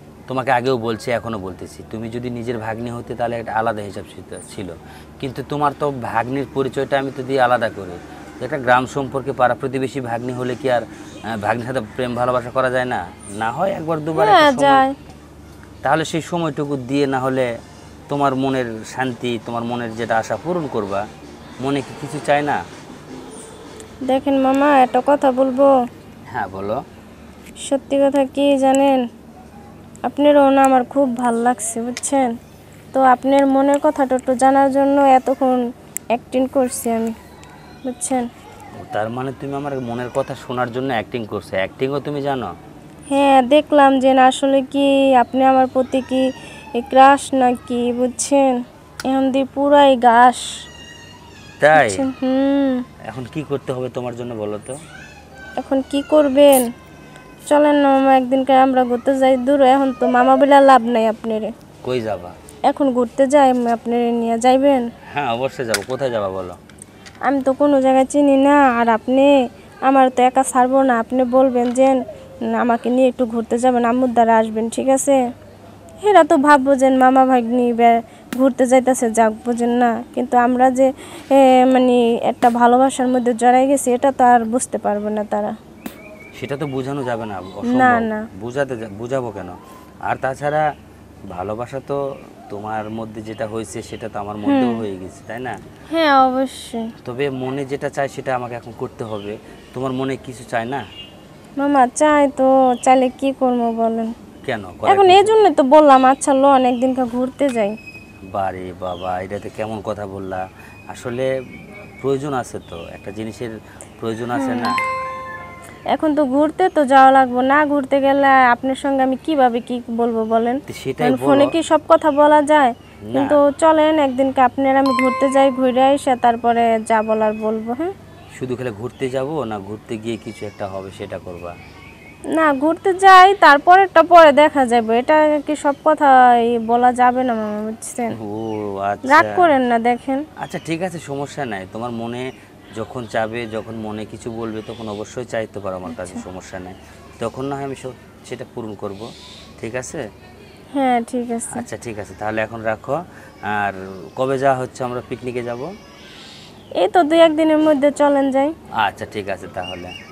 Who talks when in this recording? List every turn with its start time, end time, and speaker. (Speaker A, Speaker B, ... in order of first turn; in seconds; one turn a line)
Speaker A: 0.3-10.8
Speaker A: 11.4-14.8
Speaker B: 14.1-14.9
Speaker A: 15.8-17.5
Speaker A: 18.1-21.0
Speaker A: 21.6-22.6
Speaker B: 24.1-25.7
Speaker A: 26.3-26.8
Speaker B: 27.7-29.0
Speaker B: 30.1-32.3
Speaker B: 32.9-35.6
Speaker B: 36.1-37.1
Speaker B: 37.8-38.2
Speaker A: 38.8-42.5
Speaker B: 43.1-46.2
Speaker B: 46.8-48.5
Speaker B: 49.1-50.5
Speaker A: 51.6-52.0
Speaker B: 51.7-52.8
Speaker A: 53.1-54.8
Speaker B: 55.6-56.7
Speaker B: 57.5-61.5
Speaker A: 61.8-62.3
Speaker B: 62.7-64.8
Speaker A: 65.1-66.6
Speaker B: 67.2-69.3
Speaker B: 69.9-72.0
Speaker B: 72.5-75.2
Speaker B: 76.0-85.5
Speaker A: 86.4-89.5
Speaker B: 87.7-88.2
Speaker A: 90.1-90.6
Speaker A: 91.3-92.0
Speaker A: 92.5-95.5
Speaker B: 94.5-94.8
Speaker B: 95.9-96.9
Speaker A: 97.0-100.8
Speaker B: 101.6-104.1
Speaker A: 104.5-105.3
Speaker B: 104.9-107.7
Speaker A: 108.3-111.3
Speaker A: 112.0-114.7
Speaker B: 114.3-114.7
Speaker B: 115.9-127.9
Speaker A: 120.7-121.5
Speaker A: 123.1-123.4
Speaker A: 128.4-131.5
Speaker B: 132.3-138.2
Speaker A: 138.1-139.4
Speaker B: 139.1-140.2
Speaker A: 140.4-142.2
Speaker A: 142.8-149.1
Speaker B: 145.9-146.2
Speaker A: 149.6-150.0
Speaker B: 150.7-151.7
Speaker A: 151.5-155.7
Speaker B: 156.8-158.5
Speaker A: 158.8-159.9